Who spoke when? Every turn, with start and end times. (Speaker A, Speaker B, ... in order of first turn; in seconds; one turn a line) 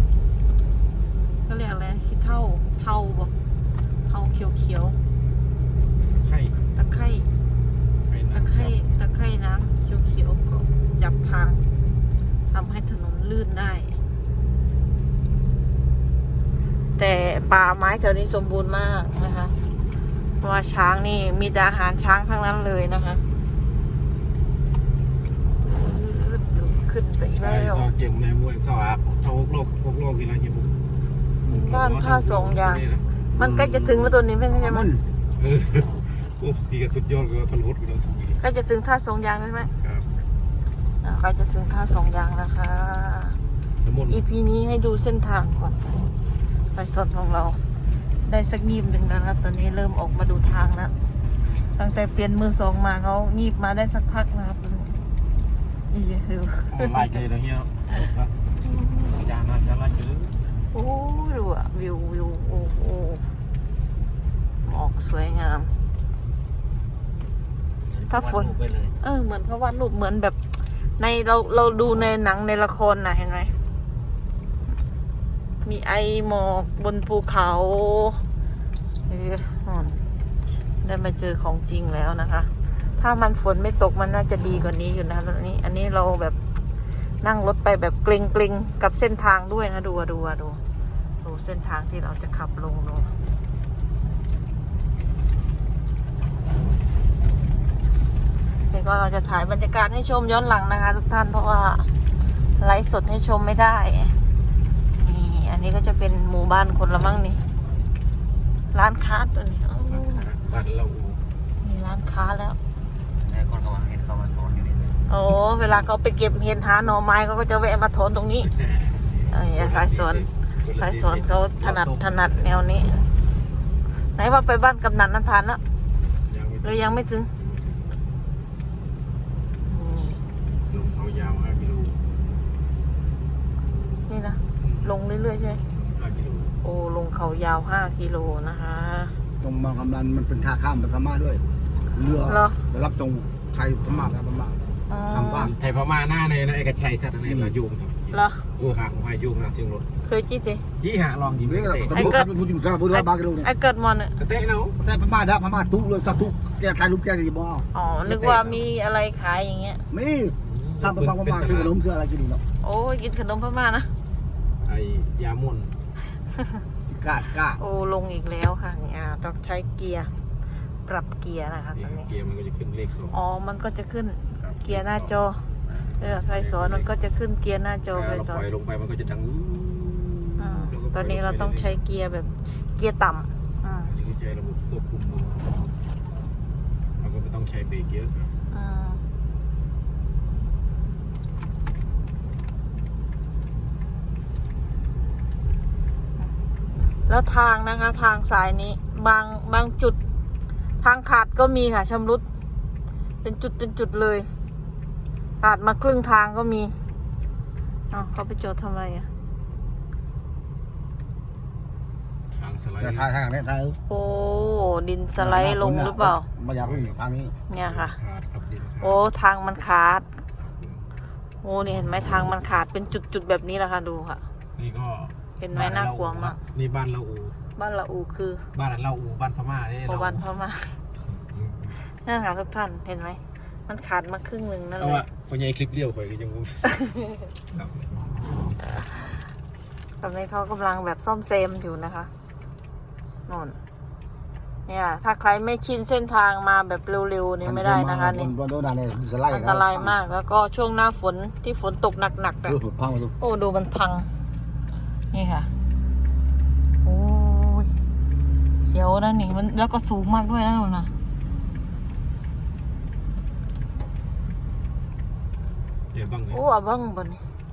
Speaker A: 1.4-3.3
Speaker A: 4.0-5.0
Speaker B: 6.0-6.6
Speaker A: 6.7-7.3
Speaker B: 8.0-8.7
Speaker A: 8.3-11.6
Speaker A: 12.5-14.0
Speaker A: 17.0-19.6
Speaker A: 20.4-23.2
Speaker A: 25.6-27.9
Speaker B: 27.4-30.8
Speaker B: 31.4-33.0
Speaker A: 31.4-32.8
Speaker C: 33.3-35.0
Speaker A: 33.4-34.9
Speaker B: 35.4-38.4
Speaker A: 38.4-39.7
Speaker B: 39.8-40.1
Speaker A: 41.0-43.4
Speaker B: 43.8-44.2
Speaker A: 44.1-45.9
Speaker A: 46.7-47.6
Speaker A: 48.2-50.9
Speaker A: 51.7-55.0
Speaker A: 55.9-57.1
Speaker B: 56.7-58.4
Speaker A: 58.6-59.1
Speaker B: 59.0-60.3
Speaker A: 60.7-63.3
Speaker A: 64.6-65.7
Speaker D: 67.8-69.0
Speaker A: 68.1-70.4
Speaker A: 71.0-73.5
Speaker A: 75.6-78.2
Speaker A: 79.1-80.0
Speaker A: 80.8-86.4
Speaker A: 87.2-90.6
Speaker A: 91.2-93.2
Speaker A: 98.7-101.9
Speaker A: 102.6-104.2
Speaker A: 105.0-107.4
Speaker A: 108.7-110.2
Speaker B: 109.9-111.2
Speaker A: 111.6-112.6
Speaker D: 113.1-115.0
Speaker A: 115.1-118.5
Speaker B: 118.5-122.3
Speaker A: 119.3-123.0
Speaker A: 124.0-125.6
Speaker B: 126.3-128.0
Speaker A: 126.6-127.3
Speaker A: 129.7-130.2
Speaker B: 130.7-132.0
Speaker A: 134.1-135.6
Speaker B: 134.6-135.0
Speaker B: 135.7-136.5
Speaker A: 136.6-139.2
Speaker C: 139.4-141.4
Speaker C: 141.9-145.5
Speaker A: 142.2-142.6
Speaker A: 144.9-145.5
Speaker B: 145.3-149.9
Speaker A: 148.1-148.5
Speaker A: 150.0-150.7
Speaker B: 150.8-152.1
Speaker C: 151.4-153.5
Speaker A: 151.9-152.3
Speaker A: 152.9-154.2
Speaker B: 154.2-154.8
Speaker C: 154.8-157.7
Speaker A: 157.7-159.8
Speaker B: 158.1-158.7
Speaker C: 159.9-162.4
Speaker B: 160.4-161.7
Speaker A: 162.6-163.9
Speaker B: 164.6-165.8
Speaker C: 166.9-167.6
Speaker A: 167.6-170.1
Speaker A: 170.8-172.1
Speaker B: 171.7-173.2
Speaker A: 173.1-175.4
Speaker B: 174.4-177.0
Speaker A: 176.0-178.4
Speaker B: 177.9-181.8
Speaker A: 180.4-183.9
Speaker B: 183.9-185.5
Speaker B: 187.0-188.3
Speaker A: 188.5-189.0
Speaker A: 197.1-200.0
Speaker A: 200.8-202.2
Speaker A: 203.2-204.3
Speaker A: 205.4-206.8
Speaker A: 207.9-209.1
Speaker B: 212.3-213.1
Speaker C: 212.8-213.8
Speaker A: 213.9-216.3
Speaker C: 215.2-217.3
Speaker B: 216.6-217.0
Speaker A: 217.5-218.0
Speaker B: 217.6-219.0
Speaker A: 218.8-220.1
Speaker B: 220.3-220.8
Speaker A: 221.4-224.2
Speaker B: 224.6-227.3
Speaker A: 225.4-226.4
Speaker A: 227.6-228.5
Speaker B: 228.5-230.2
Speaker A: 229.8-230.8
Speaker B: 231.3-231.8
Speaker A: 232.0-235.0
Speaker B: 234.8-236.9
Speaker B: 237.5-238.0
Speaker A: 240.0-242.1
Speaker A: 243.3-243.6
Speaker A: 244.7-248.3
Speaker C: 247.4-249.9
Speaker A: 249.3-252.6
Speaker C: 252.4-253.1
Speaker A: 253.2-254.1
Speaker A: 255.1-255.5
Speaker A: 256.8-257.7
Speaker A: 258.6-260.9
Speaker B: 265.9-266.4
Speaker A: 266.3-267.2